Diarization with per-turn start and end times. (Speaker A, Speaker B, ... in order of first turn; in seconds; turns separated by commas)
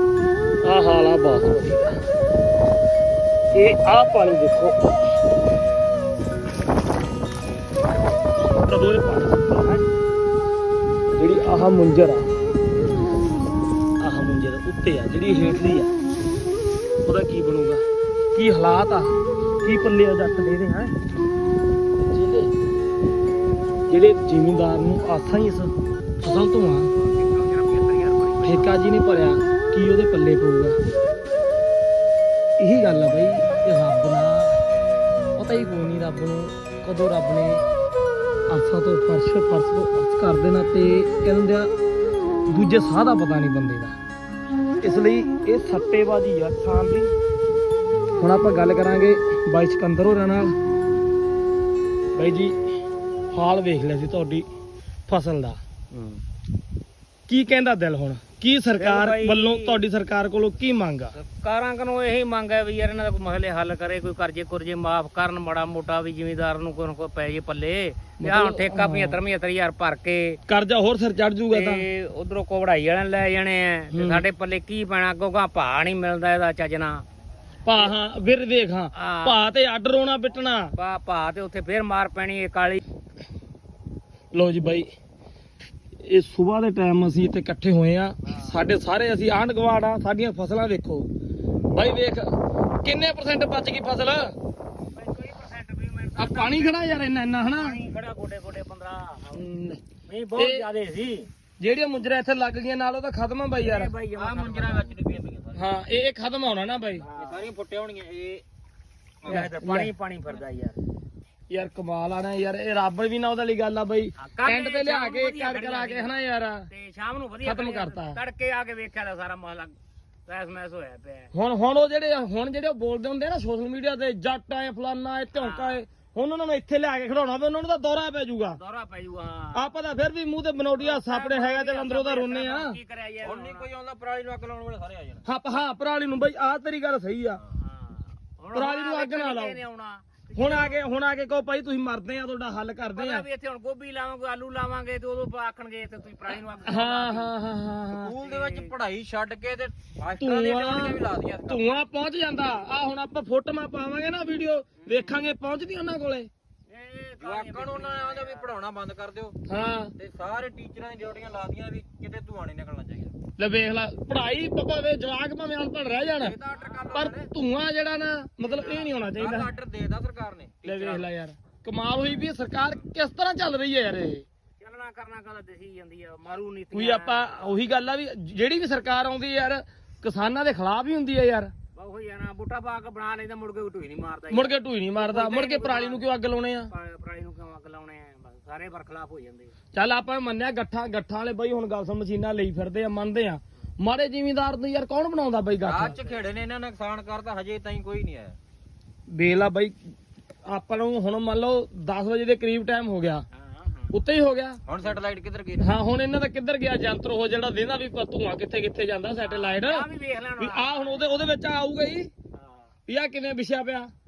Speaker A: 0.6-1.9, Speaker A: 3.5-4.8, Speaker A: 8.7-9.8, Speaker A: 11.1-12.3, Speaker A: 14.0-15.9, Speaker A: 17.0-19.1, Speaker A: 19.6-20.9, Speaker A: 22.1-22.5, Speaker A: 23.9-26.9, Speaker B: 26.9-28.8, Speaker A: 28.4-30.8, Speaker A: 32.6-34.6, Speaker A: 35.4-37.6, Speaker A: 38.5-41.7, Speaker A: 42.5-44.0, Speaker A: 44.8-47.1, Speaker A: 48.2-50.5, Speaker A: 52.1-52.5, Speaker A: 53.3-54.5, Speaker A: 55.1-55.6, Speaker B: 55.9-56.2, Speaker A: 57.3-61.2, Speaker B: 58.8-59.8, Speaker B: 61.2-70.4, Speaker A: 68.2-69.2, Speaker A: 70.5-71.8, Speaker B: 71.5-77.0, Speaker A: 73.9-74.2, Speaker A: 77.6-80.7, Speaker B: 78.9-79.4, Speaker B: 80.7-82.8, Speaker A: 84.3-84.9, Speaker A: 86.0-91.1, Speaker B: 88.2-88.6, Speaker A: 91.7-94.3, Speaker B: 94.9-96.9, Speaker A: 96.2-97.8, Speaker B: 97.5-99.4, Speaker A: 99.3-99.8, Speaker B: 100.1-101.3, Speaker A: 100.4-100.6, Speaker A: 101.6-103.9, Speaker B: 103.6-105.0, Speaker C: 104.1-105.6, Speaker A: 105.5-107.0, Speaker B: 107.0-107.5, Speaker C: 107.1-108.4, Speaker C: 109.2-109.5, Speaker B: 109.3-110.8, Speaker A: 109.3-109.9, Speaker A: 111.5-116.7, Speaker B: 114.2-116.2, Speaker B: 116.7-119.8, Speaker A: 117.4-118.2, Speaker B: 120.3-121.3, Speaker A: 121.3-128.6, Speaker B: 125.3-125.8, Speaker B: 128.5-129.7, Speaker A: 129.5-132.8, Speaker B: 130.8-133.7, Speaker C: 133.2-135.2, Speaker A: 135.2-137.4, Speaker B: 137.6-140.8, Speaker A: 138.5-139.6, Speaker A: 140.3-143.2, Speaker B: 142.9-147.3, Speaker A: 146.6-148.1, Speaker C: 147.9-151.7, Speaker B: 148.2-148.7, Speaker A: 150.2-156.3, Speaker B: 154.8-155.2, Speaker B: 156.7-158.5, Speaker C: 157.2-159.3, Speaker A: 159.5-159.9, Speaker C: 159.9-163.1, Speaker A: 163.4-166.3, Speaker C: 166.2-167.3, Speaker B: 166.5-167.1, Speaker A: 166.9-169.5, Speaker B: 168.4-168.9, Speaker C: 168.6-171.1, Speaker A: 170.6-174.2, Speaker B: 172.0-172.3, Speaker B: 174.6-177.8, Speaker A: 176.7-181.5, Speaker B: 181.7-186.1, Speaker A: 184.3-186.7, Speaker B: 186.7-189.5, Speaker A: 189.7-195.9, Speaker C: 195.6-198.4, Speaker B: 195.9-196.2, Speaker A: 199.1-199.8, Speaker A: 200.5-203.2, Speaker B: 203.3-203.9, Speaker A: 203.9-204.6, Speaker C: 204.7-205.7, Speaker A: 205.6-209.9, Speaker B: 209.2-211.3, Speaker A: 210.4-212.1, Speaker B: 212.3-212.7, Speaker A: 212.9-213.9